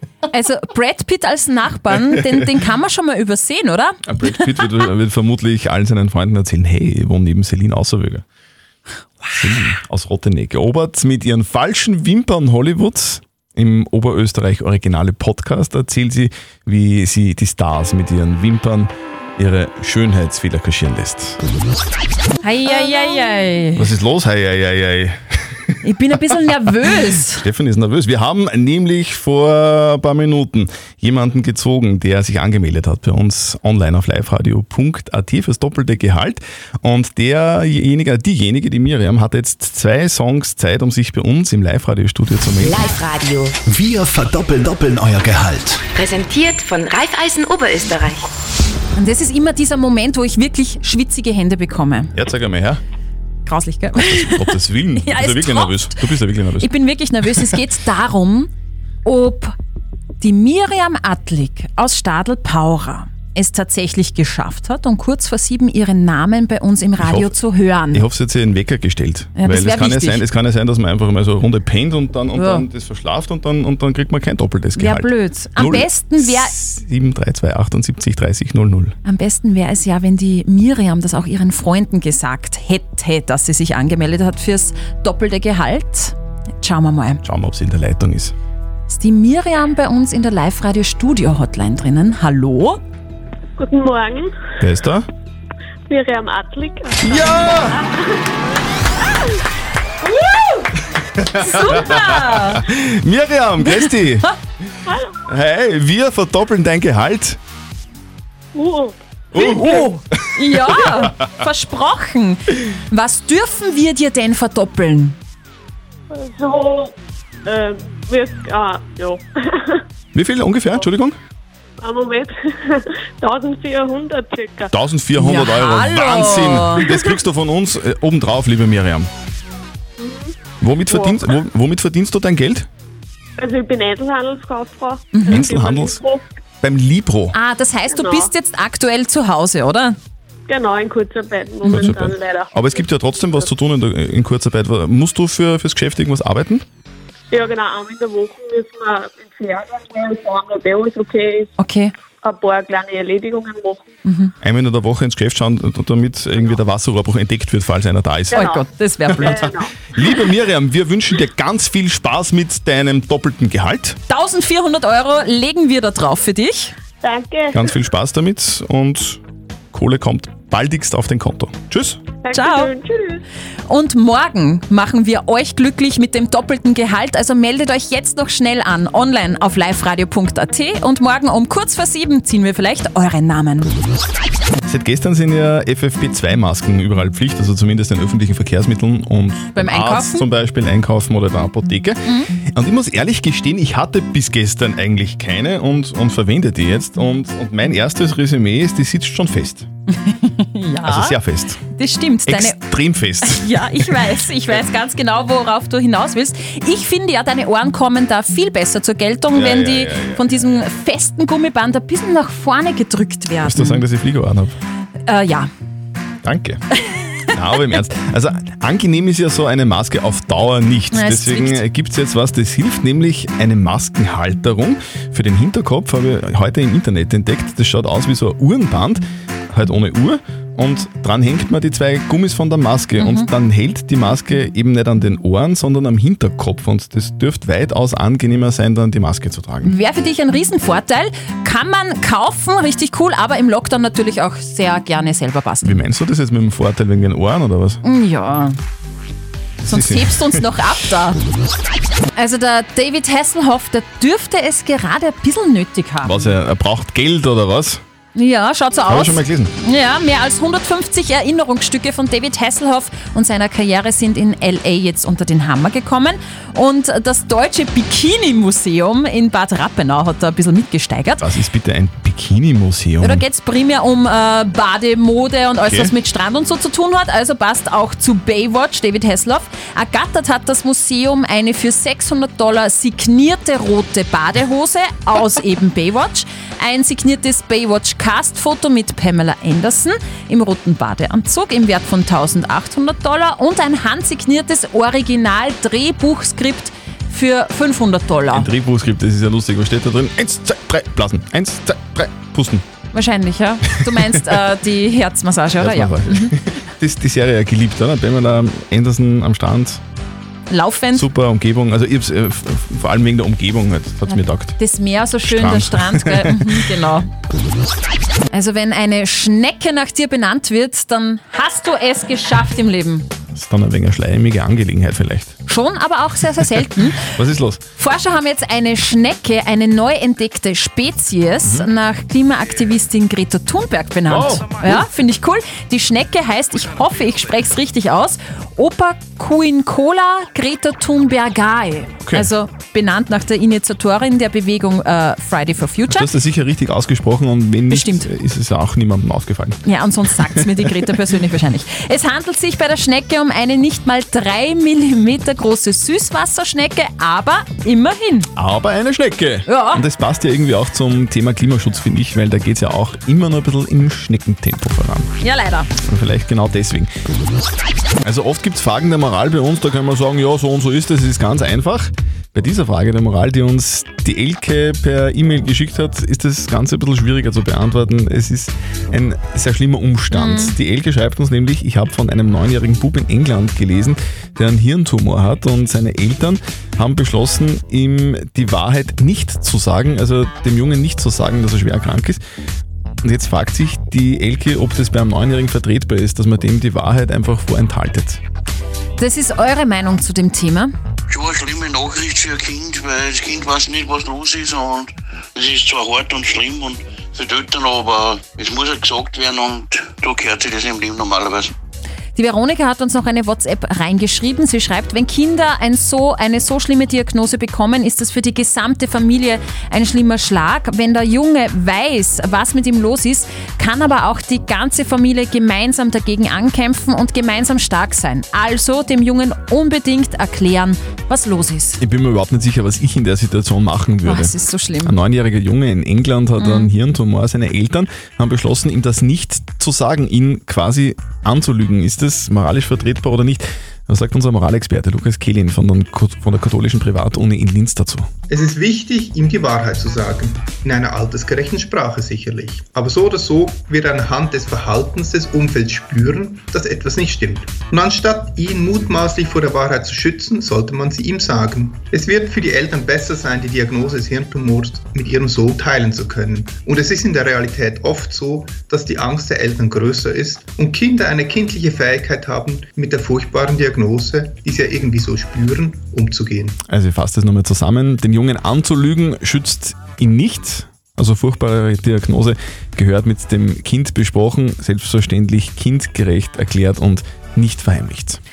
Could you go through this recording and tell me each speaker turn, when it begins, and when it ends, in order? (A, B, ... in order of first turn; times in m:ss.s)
0:00.3-0:04.6 A
0:02.1-0:02.4 B
0:04.1-0:08.2 B
0:09.3-0:21.4 B
0:22.4-0:23.9 A
0:23.7-0:25.7 B
0:25.8-0:27.4 A
0:27.1-0:42.9 B
0:42.6-0:43.6 C
0:43.6-0:45.9 D
0:45.9-0:48.3 C
0:49.0-0:52.1 A
0:52.1-0:52.8 B
0:53.4-0:58.5 A
0:54.0-0:56.7 B
0:59.0-0:59.5 A
1:00.2-1:08.0 A
1:07.0-1:07.3 B
1:07.9-1:19.0 B
1:09.4-1:10.2 A
1:12.4-1:12.6 A
1:14.7-1:16.5 A
1:19.0-1:27.2 A
1:27.2-1:28.3 B
1:28.9-1:32.8 A
1:33.6-1:34.4 E
1:34.6-1:35.1 B
1:35.9-1:38.1 E
1:37.0-1:37.8 B
1:40.0-1:40.7 A
1:41.2-1:44.3 B
1:41.3-1:42.6 A
1:43.7-1:44.2 A
1:45.2-1:47.4 B
1:48.5-1:49.6 E
1:49.3-1:51.2 B
1:49.3-1:55.2 A
1:56.1-1:56.9 E
1:57.4-1:59.8 E
2:00.1-2:01.2 B
2:01.8-2:04.7 E
2:04.7-2:09.1 B
2:05.2-2:06.9 A
2:06.9-2:07.1 E
2:10.0-2:10.3 E
2:10.6-2:12.7 B
2:10.9-2:11.2 E
2:13.4-2:16.2 E
2:15.1-2:15.5 A
2:15.2-2:16.0 B
2:16.6-2:17.4 B
2:17.3-2:20.0 A
2:17.9-2:18.3 E
2:20.5-2:22.8 E
2:21.6-2:26.6 B
2:27.3-2:31.5 E
2:31.6-2:31.9 A
2:32.2-2:34.0 E
2:34.0-2:34.3 A
2:34.4-2:44.0 B
2:38.3-2:38.6 E
2:38.3-2:39.5 A
2:39.2-2:39.7 E
2:44.1-2:46.7 A
2:47.0-2:47.7 E
2:47.5-2:49.2 B
2:49.7-2:52.0 B
2:52.2-2:53.2 E
2:52.3-2:52.7 A
2:53.7-3:03.7 A
3:04.6-3:19.7 B
3:09.5-3:10.2 A
3:19.9-3:21.2 A
3:20.8-3:21.6 B
3:21.7-3:22.6 A
3:22.3-3:24.2 B
3:23.2-3:33.8 A
3:29.3-3:30.6 B
3:33.4-3:34.5 B
3:35.0-3:35.5 A
3:36.2-3:36.6 B
3:37.3-3:59.7 B
3:40.9-3:41.6 A
3:53.0-3:53.3 A
3:59.6-4:05.8 A
4:05.6-4:07.8 B
4:07.8-4:08.6 A
4:09.6-4:10.5 B
4:09.6-4:11.2 A
4:12.1-4:16.3 A
4:16.0-4:17.8 B
4:18.1-4:31.2 A
4:18.9-4:19.5 B
4:31.2-4:33.2 B
4:33.0-4:58.5 A
4:35.7-4:35.9 B
4:58.3-5:02.6 B
5:02.9-5:06.3 A
5:03.7-5:04.4 B
5:05.6-5:09.8 B
5:10.5-5:11.1 A
5:10.9-5:14.6 B
5:14.1-5:17.1 A
5:15.2-5:16.6 B
5:18.3-5:23.1 A
5:23.3-5:25.4 B
5:25.5-5:27.1 A
5:27.0-5:27.6 B
5:27.8-5:46.1 A
5:31.4-5:31.7 B
5:34.1-5:34.9 B
5:42.0-5:42.3 B
5:45.9-5:49.6 B
5:47.7-5:48.1 A
5:49.6-5:58.3 A
5:50.2-5:50.9 B
5:58.3-6:05.1 B
5:59.5-5:59.8 A
6:05.2-6:05.7 A
6:05.8-6:06.9 B
6:08.0-6:32.2 B
6:20.1-6:20.6 A
6:33.0-6:38.2 B
6:39.0-6:40.7 A
6:41.1-6:51.5 F
6:52.2-7:11.8 A
7:11.8-7:28.1 B
7:14.0-7:14.9 A
7:16.4-7:16.7 A
7:28.3-7:56.6 G
7:56.6-8:08.2 B